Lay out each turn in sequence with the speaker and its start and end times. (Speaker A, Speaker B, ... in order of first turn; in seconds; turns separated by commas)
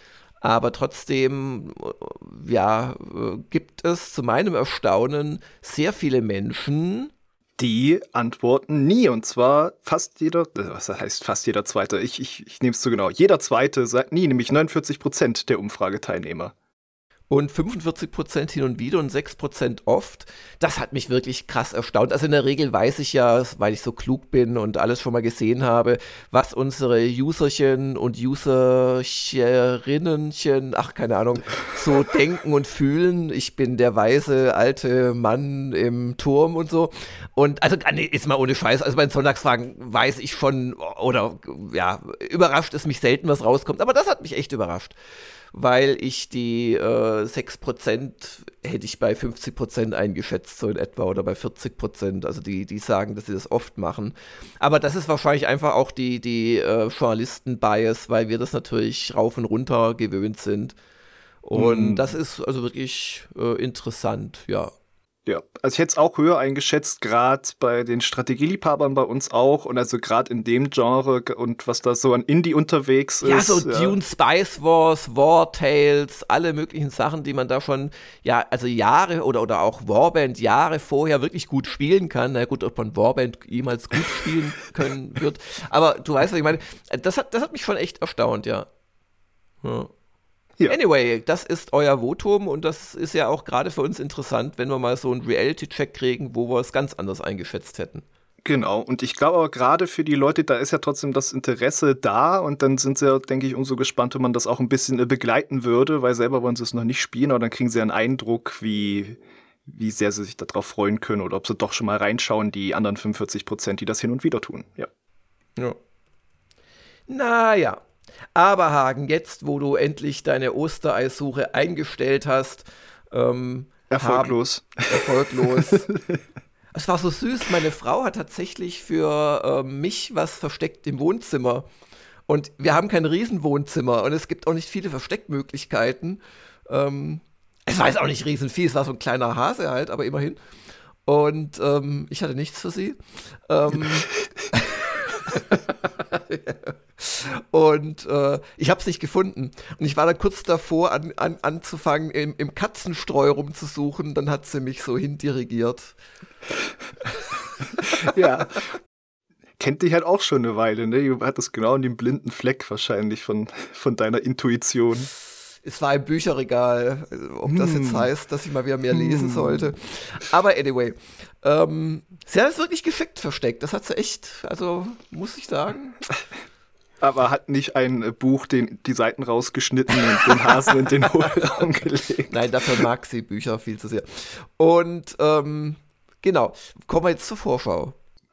Speaker A: 0.4-7.1, Speaker B: 7.6-16.5, Speaker A: 17.3-44.9, Speaker A: 45.5-60.8, Speaker A: 61.4-64.7, Speaker B: 61.5-62.1, Speaker B: 65.2-74.0, Speaker A: 73.2-88.7, Speaker A: 89.6-89.9, Speaker A: 90.7-98.0, Speaker B: 98.4-114.9, Speaker A: 117.1-117.8, Speaker A: 118.3-125.9, Speaker B: 123.9-126.2, Speaker A: 126.7-131.7, Speaker A: 132.3-140.4, Speaker A: 141.1-155.9, Speaker A: 157.1-158.2, Speaker B: 157.9-158.7, Speaker B: 159.6-165.1, Speaker A: 165.6-176.0, Speaker B: 167.5-168.1, Speaker B: 168.9-169.7, Speaker B: 177.0-182.8, Speaker A: 182.3-187.9